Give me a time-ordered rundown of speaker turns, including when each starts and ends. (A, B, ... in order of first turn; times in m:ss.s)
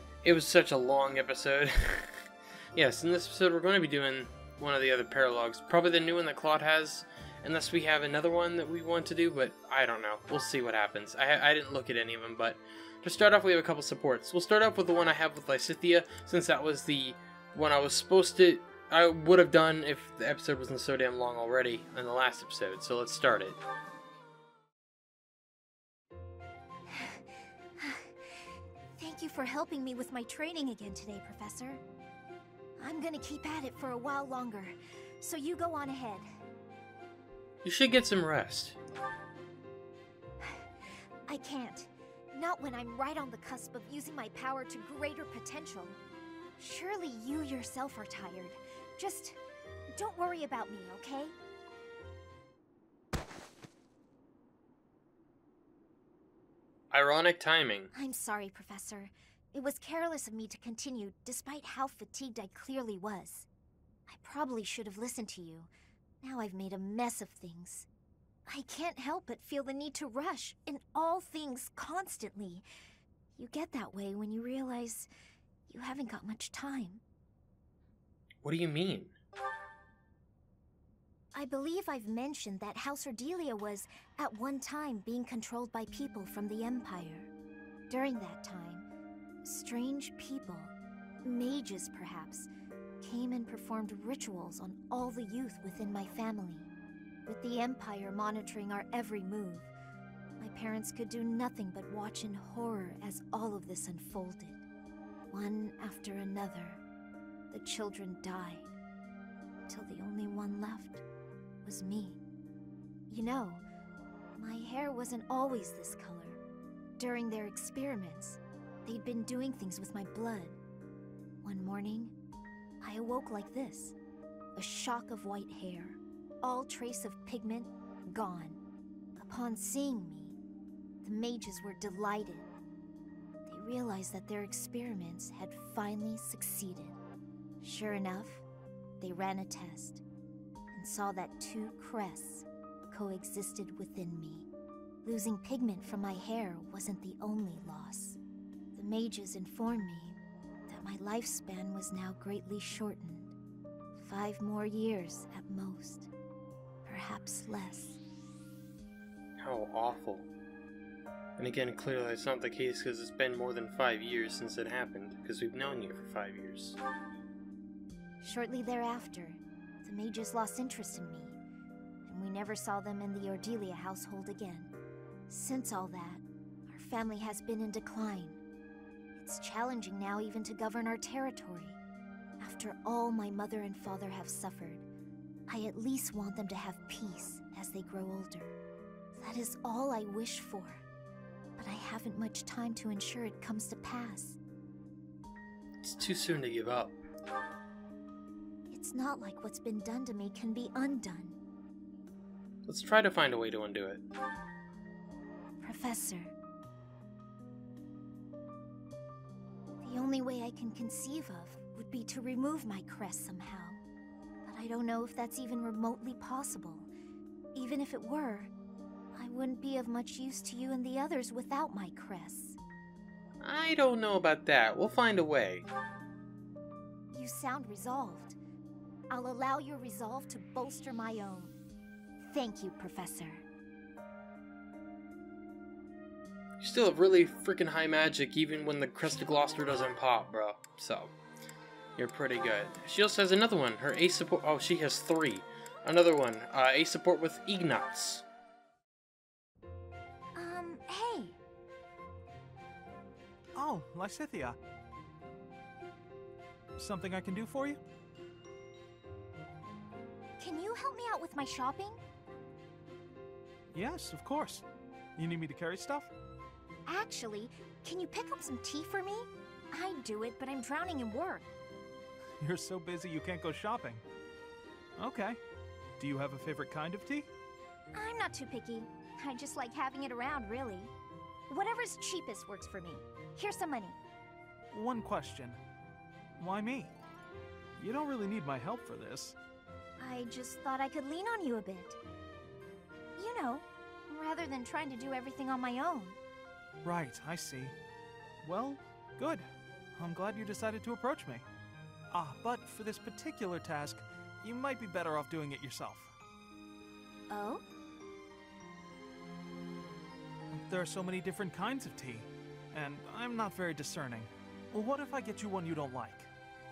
0:00.2-0:23.6 A
0:26.9-0:31.8 B
0:32.8-0:36.3 B
0:37.6-0:38.8 A
0:40.4-0:46.0 B
0:46.6-0:49.4 B
0:50.0-0:51.4 B
0:56.9-0:57.9 A
0:57.9-1:03.5 B
1:04.1-1:05.7 B
1:06.2-1:07.9 B
1:08.5-1:12.6 B
1:13.4-1:15.1 B
1:15.7-1:17.0 B
1:18.4-1:19.1 A
1:21.3-1:27.3 B
1:27.9-1:28.9 B
1:29.4-1:32.5 B
1:33.0-1:36.7 B
1:37.2-1:39.7 B
1:40.4-1:44.6 B
1:45.3-1:46.8 B
1:47.5-1:48.7 B
1:49.7-1:51.0 B
1:51.6-1:52.2 B
1:53.1-1:53.6 B
1:54.4-1:56.4 B
1:57.0-2:00.6 B
2:01.4-2:02.2 B
2:02.8-2:03.9 B
2:04.6-2:08.6 B
2:09.2-2:10.4 B
2:11.0-2:12.5 B
2:13.5-2:17.0 B
2:17.6-2:18.4 B
2:19.0-2:20.0 B
2:20.7-2:24.5 B
2:25.0-2:28.2 B
2:28.8-2:33.3 B
2:33.9-2:36.1 B
2:36.8-2:38.0 B
2:39.4-2:40.3 A
2:41.4-2:46.8 A
2:48.2-2:51.4 B
2:52.1-2:54.7 B
2:55.3-2:58.4 B
2:59.2-3:01.8 B
3:02.4-3:04.8 B
3:05.5-3:08.5 B
3:09.2-3:10.8 B
3:11.6-3:14.4 B
3:15.8-3:17.0 A
3:18.7-3:21.4 B
3:22.7-3:24.0 A
3:25.6-3:26.3 B
3:29.8-3:33.8 B
3:34.4-3:36.9 B
3:37.5-3:38.5 B
3:39.1-3:42.6 B
3:43.4-3:45.6 A
3:47.1-3:48.4 B
3:49.1-3:51.6 B
3:52.2-3:53.4 B
3:56.6-4:01.1 A
4:02.0-4:08.2 A
4:10.4-4:11.4 B
4:13.6-4:14.6 C
4:16.8-4:17.8 C
4:20.4-4:22.0 B
4:23.7-4:24.6 C
4:25.2-4:26.1 C
4:26.9-4:31.5 B
4:32.4-4:34.0 C
4:35.0-4:35.4 C
4:36.0-4:37.3 C
4:37.9-4:40.9 B
4:41.5-4:44.0 B
4:44.7-4:45.6 C
4:46.4-4:46.9 C
4:47.8-4:49.4 C
4:50.0-4:52.0 B
4:53.2-4:56.2 B
4:56.8-4:57.8 C
4:58.4-5:01.4 C
5:02.1-5:06.1 C
5:07.3-5:07.6 B
5:10.5-5:16.3 C